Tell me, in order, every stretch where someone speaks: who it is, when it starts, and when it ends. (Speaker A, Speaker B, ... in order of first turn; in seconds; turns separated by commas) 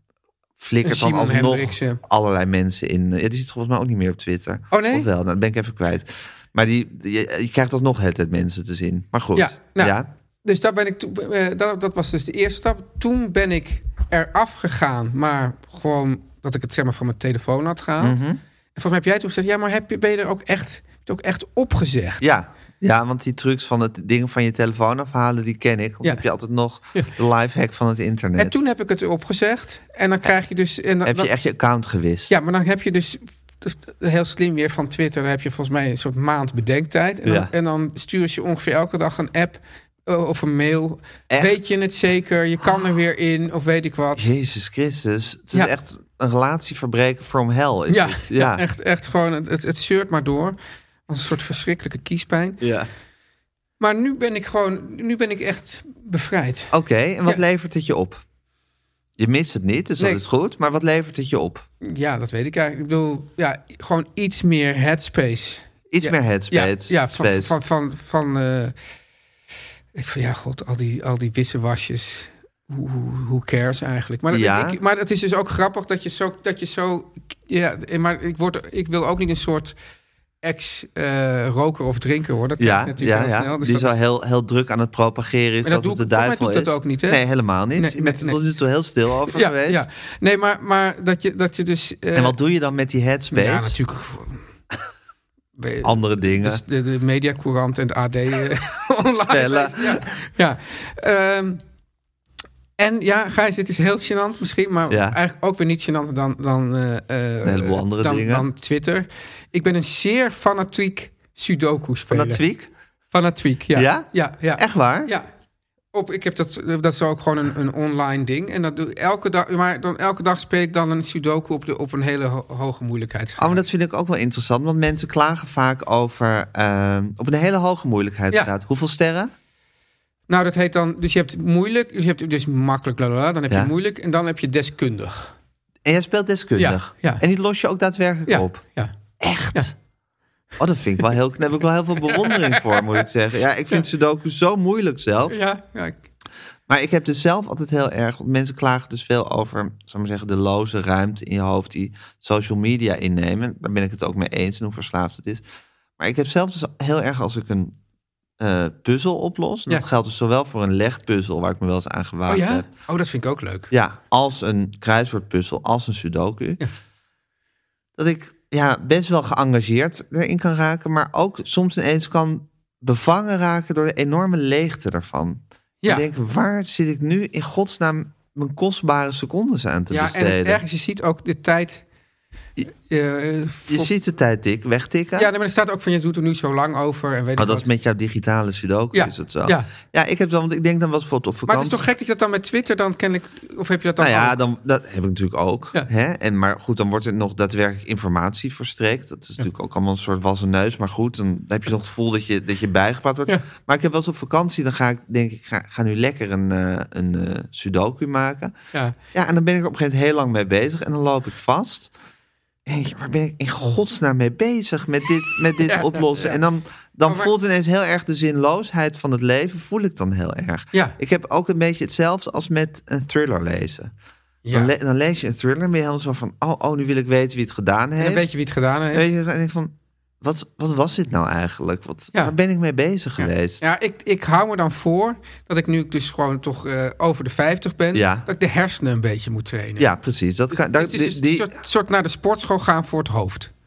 Speaker A: 0.6-10.1, Speaker B: 0.8-2.0, Speaker B: 4.7-5.1, Speaker B: 9.3-18.2, Speaker A: 18.0-18.4, Speaker B: 18.8-22.3, Speaker A: 22.2-28.6, Speaker B: 28.4-31.3, Speaker A: 31.0-32.3, Speaker B: 32.3-44.3, Speaker A: 37.2-37.5, Speaker A: 41.3-41.7, Speaker A: 44.2-48.6, Speaker B: 47.9-52.6, Speaker A: 52.6-52.9, Speaker B: 53.8-56.7, Speaker A: 56.7-58.2, Speaker A: 59.2-61.7, Speaker B: 61.8-68.8, Speaker A: 65.9-67.5, Speaker B: 70.0-79.8, Speaker A: 74.3-74.8, Speaker B: 80.4-84.0, Speaker A: 82.6-89.9, Speaker B: 85.6-87.2, Speaker B: 87.7-88.4, Speaker B: 89.3-92.4, Speaker A: 92.2-93.8, Speaker B: 93.3-94.4, Speaker B: 95.6-101.6, Speaker A: 95.8-96.6, Speaker A: 99.2-100.1, Speaker B: 102.8-112.4, Speaker A: 104.9-105.2, Speaker A: 107.4-108.5, Speaker A: 112.1-112.7, Speaker B: 113.1-115.3, Speaker A: 113.7-115.1, Speaker B: 115.9-123.7, Speaker A: 123.4-129.3, Speaker B: 130.3-135.3, Speaker A: 135.8-138.6, Speaker B: 136.6-137.2, Speaker B: 138.3-138.9, Speaker A: 139.2-139.8, Speaker A: 140.6-145.4, Speaker B: 142.1-143.0, Speaker B: 145.3-146.0, Speaker A: 146.7-155.4, Speaker A: 156.0-157.7, Speaker A: 158.4-162.7, Speaker B: 162.3-163.7, Speaker A: 163.7-166.6, Speaker A: 168.0-180.6, Speaker B: 175.8-176.1, Speaker B: 179.9-181.8, Speaker B: 182.9-183.9, Speaker A: 183.7-185.3, Speaker B: 185.2-187.7, Speaker A: 187.4-191.8, Speaker B: 188.9-189.7, Speaker B: 191.5-194.4, Speaker A: 194.0-208.6, Speaker A: 209.1-211.9, Speaker A: 212.7-223.9, Speaker B: 215.7-216.4, Speaker B: 224.4-224.7, Speaker A: 224.5-228.3, Speaker B: 228.0-229.1, Speaker A: 228.9-233.6, Speaker B: 233.2-239.9, Speaker A: 237.9-238.3, Speaker A: 239.8-241.5, Speaker B: 240.5-243.5